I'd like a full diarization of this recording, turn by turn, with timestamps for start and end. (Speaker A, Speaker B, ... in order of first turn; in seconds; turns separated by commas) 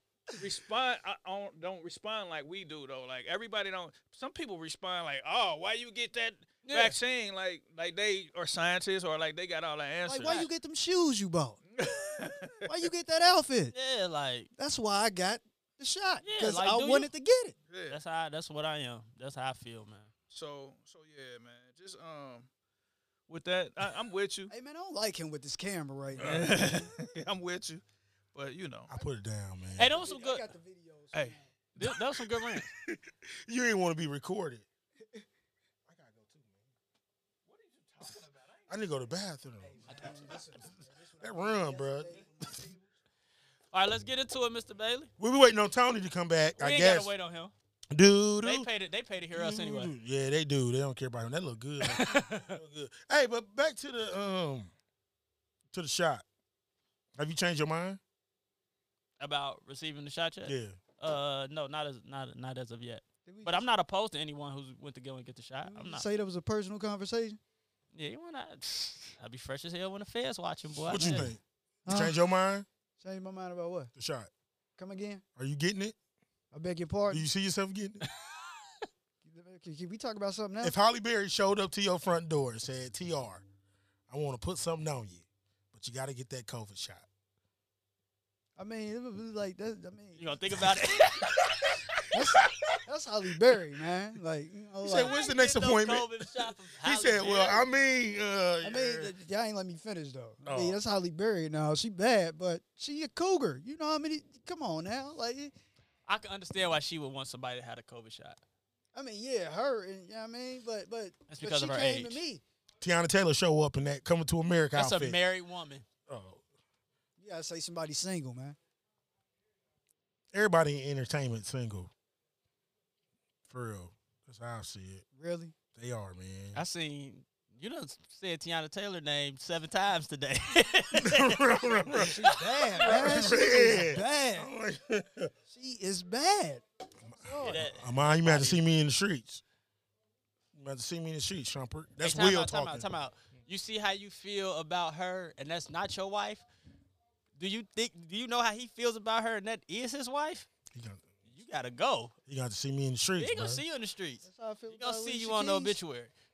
Speaker A: 0.3-10.5, Speaker B: 6.6-6.9, Speaker C: 10.1-11.6, Speaker A: 11.7-12.7, Speaker C: 12.6-13.7, Speaker B: 13.7-14.5, Speaker C: 14.6-17.5, Speaker B: 16.2-17.1, Speaker A: 17.7-18.0, Speaker B: 17.9-20.1, Speaker A: 20.3-22.5, Speaker A: 23.3-24.5, Speaker C: 24.5-26.9, Speaker A: 26.2-27.8, Speaker A: 28.3-28.9, Speaker D: 28.9-29.9, Speaker B: 29.8-30.4, Speaker C: 29.9-31.5, Speaker A: 31.1-31.9, Speaker B: 31.8-32.7, Speaker D: 31.8-34.6, Speaker D: 35.9-36.6, Speaker A: 37.5-38.6, Speaker D: 38.7-40.5, Speaker C: 39.6-42.8, Speaker D: 41.2-42.2, Speaker B: 43.7-45.1, Speaker D: 45.2-47.1, Speaker B: 46.6-47.5, Speaker D: 47.9-48.7, Speaker B: 48.4-49.9, Speaker D: 49.3-54.7, Speaker B: 51.8-52.5, Speaker D: 55.7-56.2, Speaker D: 57.2-58.0, Speaker B: 59.2-66.0, Speaker D: 60.4-60.8, Speaker C: 63.2-63.5, Speaker C: 65.6-67.4, Speaker B: 67.9-71.3, Speaker D: 70.9-72.7, Speaker C: 71.0-71.3, Speaker C: 71.9-72.1, Speaker C: 73.0-73.9, Speaker D: 74.0-74.3, Speaker C: 74.8-75.2, Speaker D: 75.4-75.9, Speaker C: 76.5-77.2, Speaker D: 77.1-78.0, Speaker C: 79.2-80.8, Speaker D: 80.6-83.4, Speaker D: 84.1-87.1, Speaker C: 88.6-90.2, Speaker B: 90.2-91.3, Speaker D: 90.5-92.8, Speaker C: 92.1-95.1, Speaker D: 94.8-99.1, Speaker B: 94.9-97.6, Speaker C: 98.6-105.5, Speaker D: 100.4-100.8, Speaker B: 106.1-108.4, Speaker C: 108.9-112.4, Speaker B: 111.3-112.2, Speaker D: 112.8-115.2, Speaker B: 114.7-115.8, Speaker D: 116.1-116.4, Speaker C: 117.2-118.6, Speaker D: 120.3-121.9, Speaker D: 123.5-125.0, Speaker C: 125.2-125.5, Speaker D: 125.7-126.6, Speaker B: 126.5-133.2, Speaker D: 130.9-132.2, Speaker C: 132.0-134.5, Speaker D: 132.8-135.3, Speaker C: 135.5-136.6, Speaker D: 137.0-139.4, Speaker B: 137.3-138.6, Speaker D: 140.5-142.9, Speaker B: 142.0-146.4, Speaker B: 147.4-150.5, Speaker D: 150.7-151.1, Speaker B: 151.3-152.1, Speaker D: 152.2-153.6, Speaker B: 153.2-156.1, Speaker C: 154.2-155.8